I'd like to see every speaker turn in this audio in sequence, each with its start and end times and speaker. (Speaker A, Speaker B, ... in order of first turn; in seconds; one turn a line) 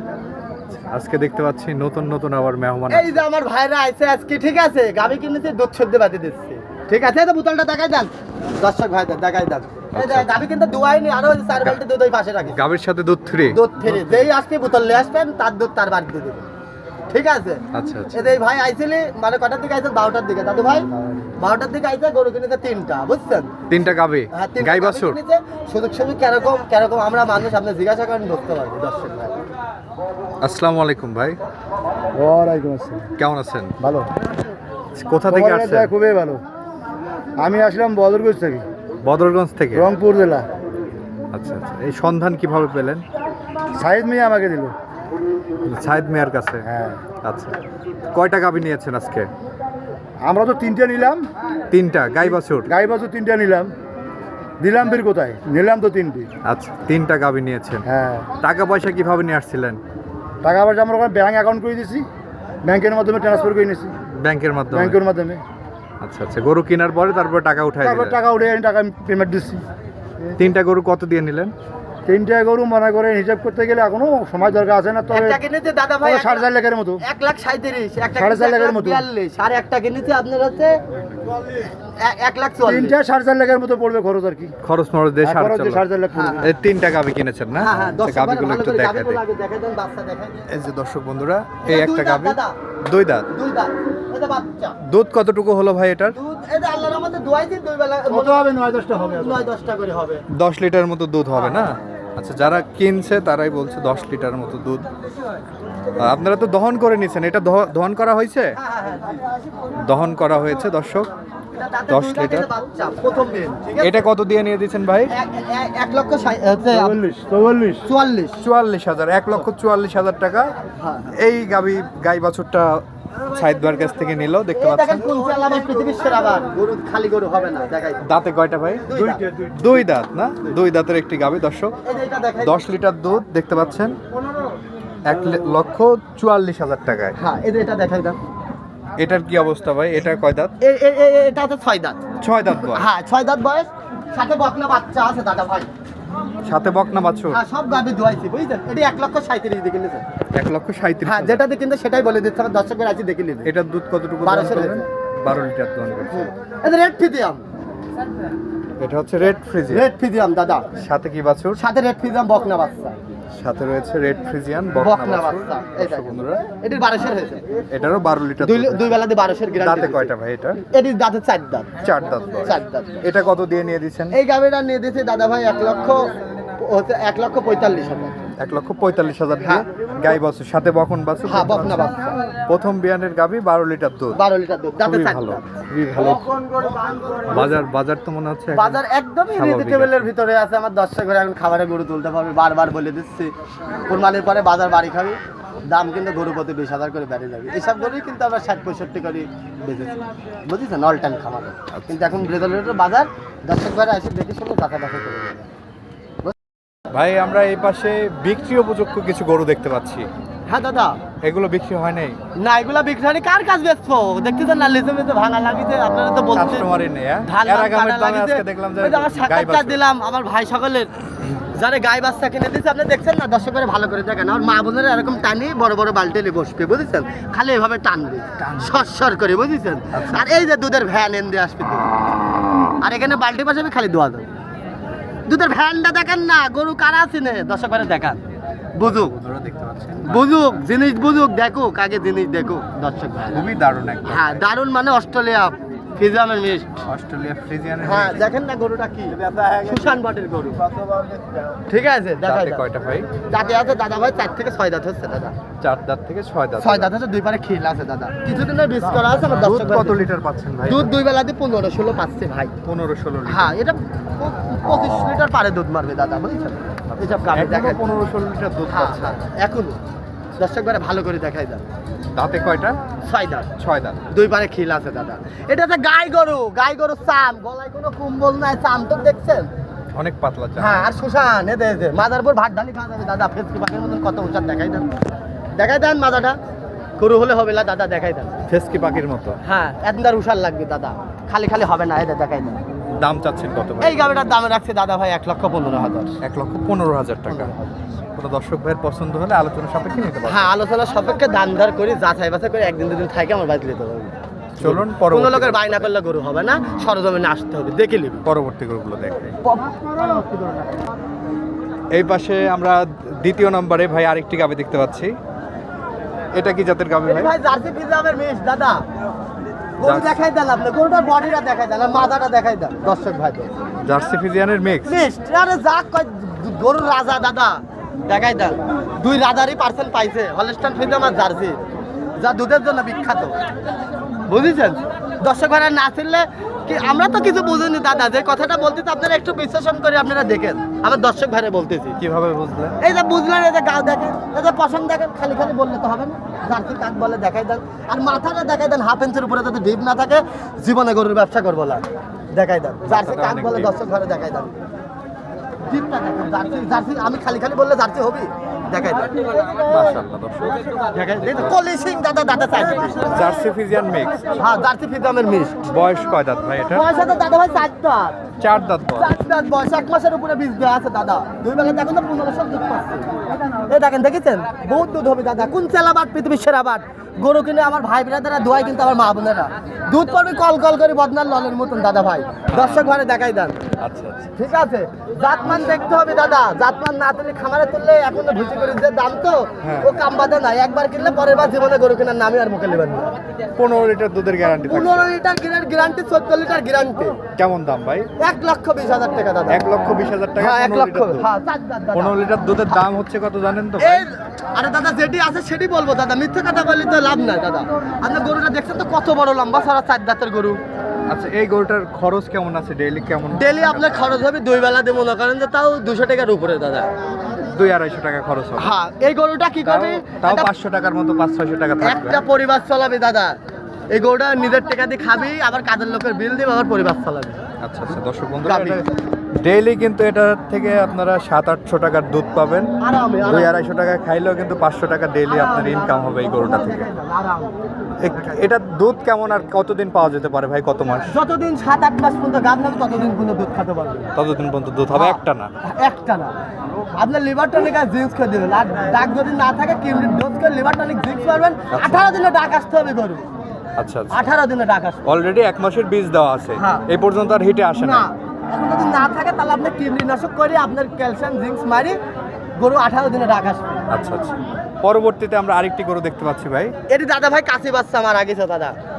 Speaker A: 0.9-3.2
Speaker B: 2.9-12.6
Speaker A: 9.9-10.3
Speaker A: 12.5-14.3
Speaker B: 13.5-16.4
Speaker B: 17.1-20.9
Speaker A: 17.7-18.3
Speaker B: 21.4-23.6
Speaker A: 23.7-25.2
Speaker B: 24.3-29.4
Speaker A: 30.4-31.4
Speaker C: 32.1-33.1
Speaker A: 33.2-33.7
Speaker C: 33.8-34.1
Speaker A: 34.9-35.9
Speaker C: 35.3-36.4
Speaker C: 37.4-38.6
Speaker A: 39.0-39.9
Speaker C: 39.7-40.5
Speaker A: 41.3-43.0
Speaker C: 43.8-44.7
Speaker A: 45.6-46.6
Speaker C: 46.6-47.0
Speaker A: 47.2-47.6
Speaker A: 48.1-49.3
Speaker C: 50.2-51.2
Speaker A: 51.7-52.7
Speaker C: 52.7-53.7
Speaker C: 54.6-56.3
Speaker A: 56.4-57.8
Speaker C: 57.8-58.3
Speaker A: 58.4-59.8
Speaker C: 60.4-62.0
Speaker C: 62.6-64.0
Speaker A: 64.1-65.0
Speaker C: 64.7-65.4
Speaker A: 66.0-68.2
Speaker C: 67.8-69.6
Speaker A: 70.4-71.5
Speaker C: 72.0-75.4
Speaker B: 75.1-76.5
Speaker C: 76.0-77.0
Speaker B: 77.0-80.8
Speaker C: 78.1-79.0
Speaker B: 82.0-83.0
Speaker C: 82.6-84.5
Speaker A: 84.6-85.9
Speaker C: 85.2-86.4
Speaker B: 86.1-86.6
Speaker A: 86.4-89.2
Speaker B: 87.5-90.4
Speaker A: 90.5-93.3
Speaker B: 91.6-92.5
Speaker B: 93.3-94.8
Speaker A: 94.8-96.1
Speaker B: 96.1-98.5
Speaker C: 98.1-99.5
Speaker B: 99.1-100.2
Speaker A: 100.3-104.9
Speaker B: 101.3-101.7
Speaker A: 106.0-108.6
Speaker B: 108.6-109.2
Speaker A: 109.8-111.1
Speaker B: 111.5-114.1
Speaker A: 111.9-112.5
Speaker A: 113.8-115.1
Speaker B: 115.1-117.0
Speaker C: 116.7-117.8
Speaker B: 117.8-118.4
Speaker A: 118.4-120.5
Speaker B: 120.8-121.1
Speaker A: 121.2-125.1
Speaker B: 124.6-128.1
Speaker A: 128.0-131.7
Speaker B: 128.9-129.2
Speaker B: 131.8-132.6
Speaker A: 132.4-134.0
Speaker A: 135.0-137.2
Speaker B: 137.2-138.2
Speaker A: 139.0-140.5
Speaker B: 140.6-142.0
Speaker A: 142.2-142.9
Speaker B: 142.6-145.7
Speaker A: 146.4-147.4
Speaker B: 147.3-150.0
Speaker A: 150.3-151.4
Speaker B: 151.0-153.5
Speaker A: 153.4-156.3
Speaker B: 154.2-154.8
Speaker B: 156.1-157.4
Speaker A: 158.8-159.8
Speaker B: 159.7-160.7
Speaker A: 160.8-161.6
Speaker B: 161.6-163.0
Speaker A: 163.3-166.4
Speaker B: 164.7-167.4
Speaker A: 167.7-168.9
Speaker B: 168.4-170.1
Speaker A: 169.6-170.6
Speaker B: 170.7-171.7
Speaker A: 171.8-174.2
Speaker B: 172.4-173.0
Speaker B: 174.1-178.2
Speaker A: 178.4-181.9
Speaker B: 181.2-182.2
Speaker A: 182.5-184.2
Speaker B: 184.1-185.4
Speaker A: 184.8-186.2
Speaker A: 187.3-188.8
Speaker B: 188.5-193.3
Speaker A: 189.3-190.1
Speaker B: 193.9-205.4
Speaker A: 201.7-202.0
Speaker A: 206.9-210.1
Speaker B: 210.5-211.0
Speaker A: 211.2-212.2
Speaker B: 212.4-216.7
Speaker A: 216.3-219.8
Speaker B: 217.2-220.9
Speaker B: 221.5-231.9
Speaker A: 228.4-228.7
Speaker A: 229.9-230.3
Speaker B: 232.8-234.3
Speaker B: 235.2-238.2
Speaker B: 238.8-239.1
Speaker A: 238.8-240.3
Speaker B: 240.0-243.4
Speaker A: 243.3-244.4
Speaker B: 244.1-246.8
Speaker A: 246.9-248.3
Speaker B: 247.8-250.6
Speaker A: 249.2-249.5
Speaker B: 251.7-252.6
Speaker A: 252.2-253.1
Speaker B: 253.2-255.3
Speaker A: 255.6-256.9
Speaker B: 256.6-260.0
Speaker A: 259.3-260.9
Speaker B: 260.6-262.5
Speaker A: 262.6-263.5
Speaker B: 263.2-267.8
Speaker A: 266.9-269.2
Speaker B: 268.7-269.8
Speaker B: 270.4-271.6
Speaker A: 272.1-272.8
Speaker B: 273.0-273.5
Speaker A: 273.6-274.0
Speaker B: 274.1-279.5
Speaker A: 279.9-280.8
Speaker B: 280.6-284.9
Speaker B: 285.5-286.4
Speaker B: 287.0-288.4
Speaker A: 288.5-289.4
Speaker B: 289.4-292.6
Speaker A: 293.0-294.1
Speaker B: 293.8-296.2
Speaker A: 296.2-297.5
Speaker B: 297.3-297.6
Speaker A: 298.1-300.5
Speaker B: 300.2-308.2
Speaker A: 304.6-305.9
Speaker A: 308.2-309.4
Speaker B: 309.4-310.7
Speaker A: 311.9-315.1
Speaker A: 316.3-317.3
Speaker B: 317.1-318.8
Speaker B: 319.8-323.5
Speaker A: 319.8-320.2
Speaker A: 323.8-324.9
Speaker B: 324.8-331.6
Speaker B: 332.2-333.3
Speaker B: 334.3-342.0
Speaker A: 342.0-342.8
Speaker B: 342.8-354.5
Speaker A: 352.9-353.7
Speaker B: 355.6-359.2
Speaker A: 359.6-361.6
Speaker B: 360.9-363.0
Speaker A: 363.0-364.2
Speaker B: 364.4-365.6
Speaker A: 365.6-366.9
Speaker B: 366.7-368.2
Speaker A: 368.4-369.2
Speaker B: 368.9-373.1
Speaker B: 373.7-383.6
Speaker A: 382.5-382.8
Speaker A: 383.8-384.3
Speaker B: 384.4-393.1
Speaker A: 389.6-389.9
Speaker A: 393.6-395.1
Speaker B: 394.7-397.2
Speaker A: 397.4-398.1
Speaker B: 398.2-399.6
Speaker A: 399.5-401.3
Speaker B: 400.4-402.2
Speaker A: 401.9-404.1
Speaker B: 403.8-410.6
Speaker A: 411.1-414.2
Speaker B: 413.3-416.9
Speaker A: 417.5-418.7
Speaker B: 418.6-420.5
Speaker A: 419.6-422.2
Speaker B: 421.8-423.4
Speaker B: 423.9-427.4
Speaker A: 427.6-428.8
Speaker B: 428.4-428.9
Speaker A: 429.4-432.7
Speaker B: 432.8-433.5
Speaker A: 433.2-436.9
Speaker B: 435.2-437.6
Speaker A: 438.0-441.2
Speaker B: 441.1-444.1
Speaker A: 444.1-445.5
Speaker B: 444.9-446.4
Speaker B: 446.9-453.3
Speaker A: 451.7-452.1
Speaker A: 453.8-454.2
Speaker B: 454.1-455.0
Speaker A: 455.0-458.1
Speaker B: 456.6-456.9
Speaker B: 457.8-462.0
Speaker B: 462.6-463.8
Speaker A: 463.9-466.7
Speaker B: 466.9-468.8